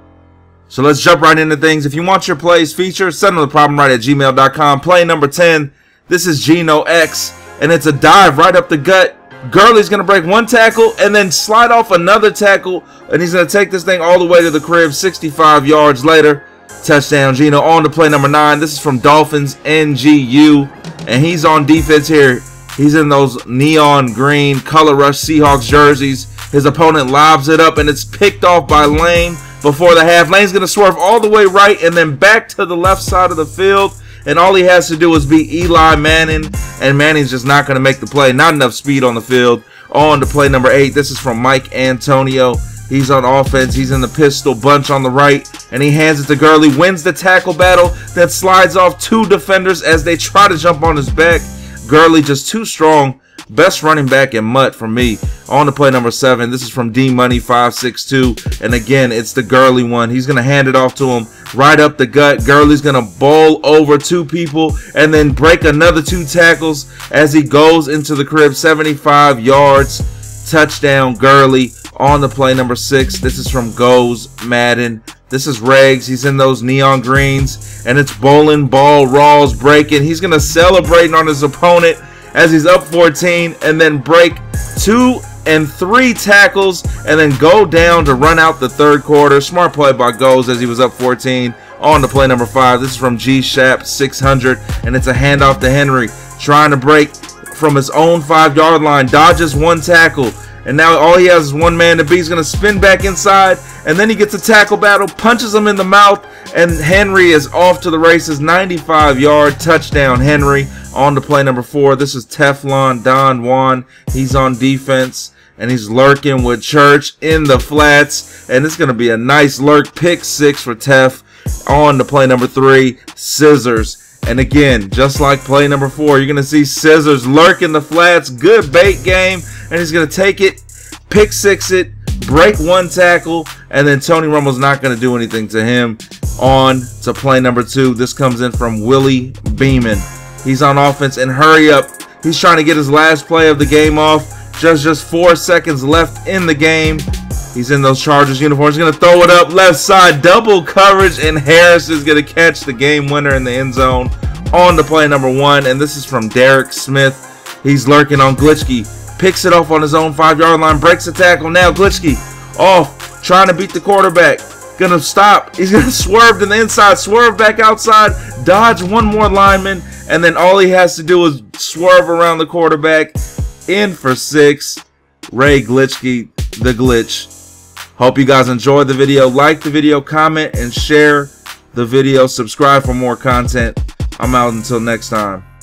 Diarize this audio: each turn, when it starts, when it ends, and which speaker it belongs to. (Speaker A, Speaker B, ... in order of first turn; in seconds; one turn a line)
Speaker A: 0.7-177.3
Speaker A: 178.0-185.4